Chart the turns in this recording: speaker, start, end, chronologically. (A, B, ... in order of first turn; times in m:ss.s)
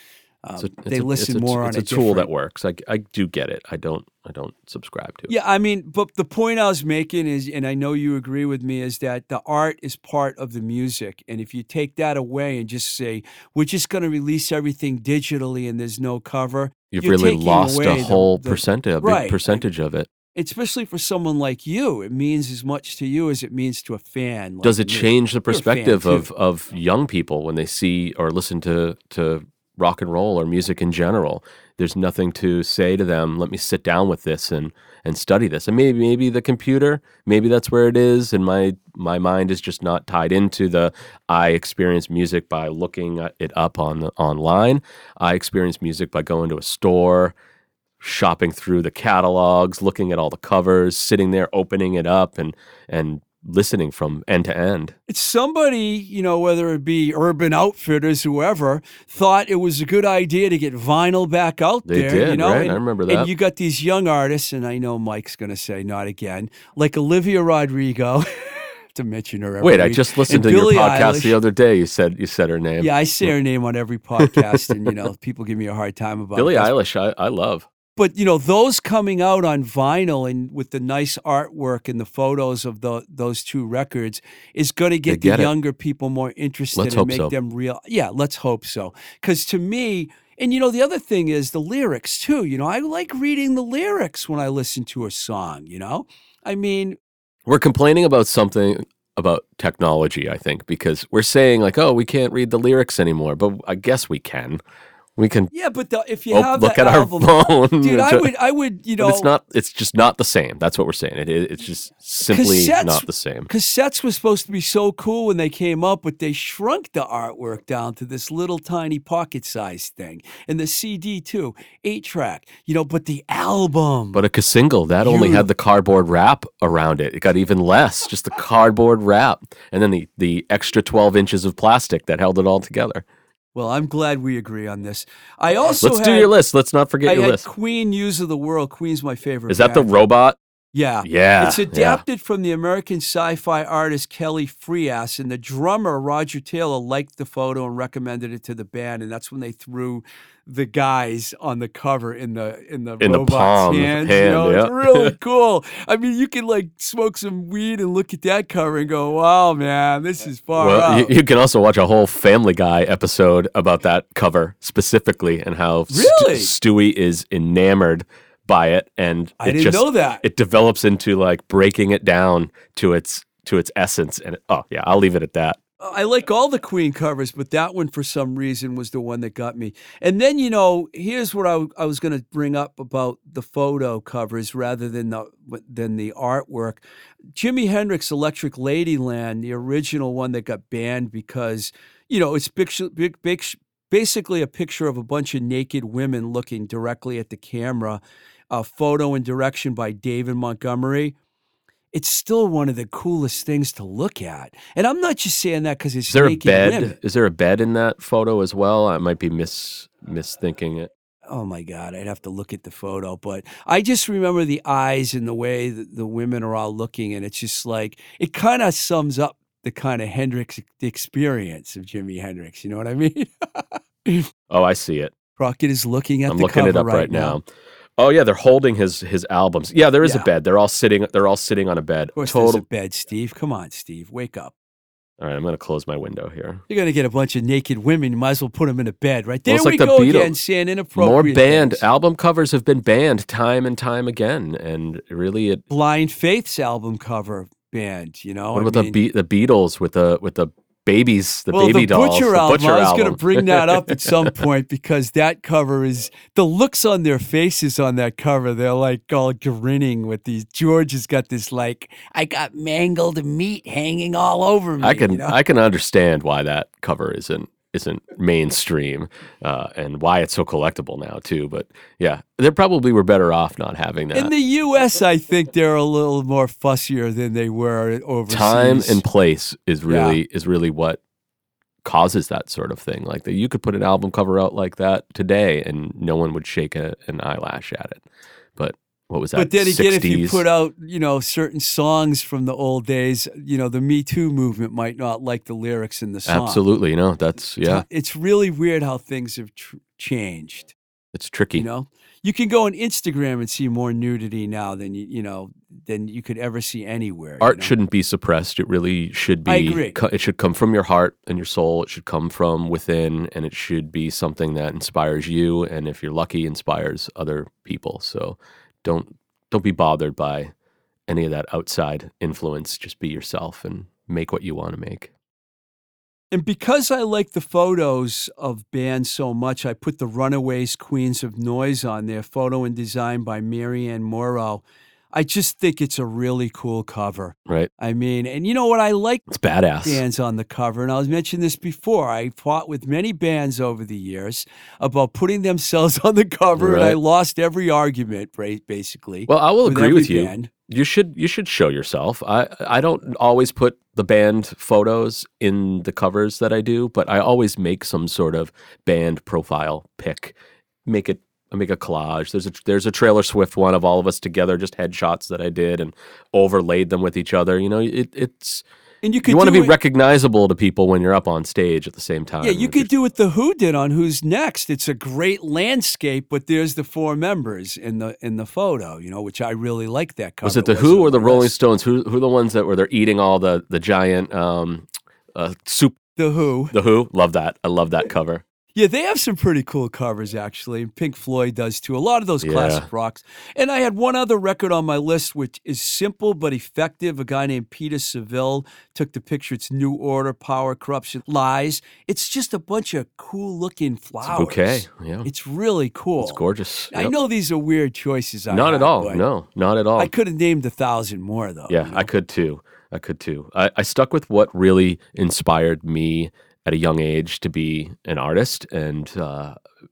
0:00.4-0:02.3 A
0:00.6-0:05.3 B
0:05.3-0:19.6 A
0:16.9-0:20.1 B
0:20.3-0:26.3 A
0:24.6-0:47.3 B
0:48.0-0:54.9 B
0:55.1-1:11.4 A
1:01.8-1:03.3 B
1:09.6-1:13.3 B
1:12.8-1:16.7 A
1:14.2-1:14.7 B
1:16.4-1:17.6 B
1:18.0-1:37.0 A
1:25.1-1:25.5 B
1:26.8-1:27.3 B
1:37.4-1:44.6 B
1:45.2-1:45.5 B
1:45.5-1:49.3 A
1:46.3-1:48.3 B
1:49.0-1:53.5 B
1:52.3-2:04.2 A
2:04.1-2:13.0 B
2:05.0-2:05.4 A
2:13.5-2:16.3 A
2:15.8-2:17.4 B
2:17.0-2:19.9 A
2:19.5-2:20.4 B
2:20.7-2:41.1 A
2:21.0-2:22.0 B
2:33.0-2:35.1 B
2:40.6-2:55.6 B
2:45.9-2:46.5 A
2:49.4-2:50.2 A
2:55.8-3:06.8 A
3:07.3-3:21.1 A
3:21.9-3:26.9 A
3:26.1-3:30.9 B
3:31.3-3:44.3 A
3:44.5-3:45.1 B
3:45.4-3:47.4 A
3:46.3-3:47.4 B
3:48.0-3:52.6 B
3:50.0-3:50.3 A
3:52.2-3:54.5 A
3:55.2-3:56.6 B
3:56.7-4:01.8 A
3:59.5-4:00.3 B
4:00.9-4:05.6 B
4:05.7-4:09.0 A
4:08.5-4:14.3 B
4:11.5-4:25.4 A
4:24.8-4:34.3 B
4:34.1-4:39.0 A
4:38.3-4:41.0 B
4:39.9-4:40.2 A
4:41.8-4:48.0 B
4:48.6-4:50.4 B
4:49.3-4:56.6 A
4:56.3-4:57.8 B
4:57.6-5:00.7 A
5:01.1-5:01.6 B
5:01.5-5:07.7 A
5:07.4-5:20.5 B
5:09.4-5:10.0 A
5:21.1-5:25.1 B
5:26.3-5:39.2 A
5:39.3-5:40.0 B
5:39.8-5:50.5 A
5:46.6-5:47.0 B
5:49.3-6:08.6 B
6:09.0-6:09.8 A
6:09.2-6:12.9 B
6:12.4-6:21.5 A
6:20.4-6:26.0 B
6:26.2-6:26.7 A
6:26.7-6:28.4 B
6:28.7-6:49.2 A
6:32.4-6:32.8 B
6:44.2-6:45.3 B
6:46.2-6:47.1 B
6:48.5-6:50.1 B
6:50.0-6:52.1 A
6:51.7-6:59.6 B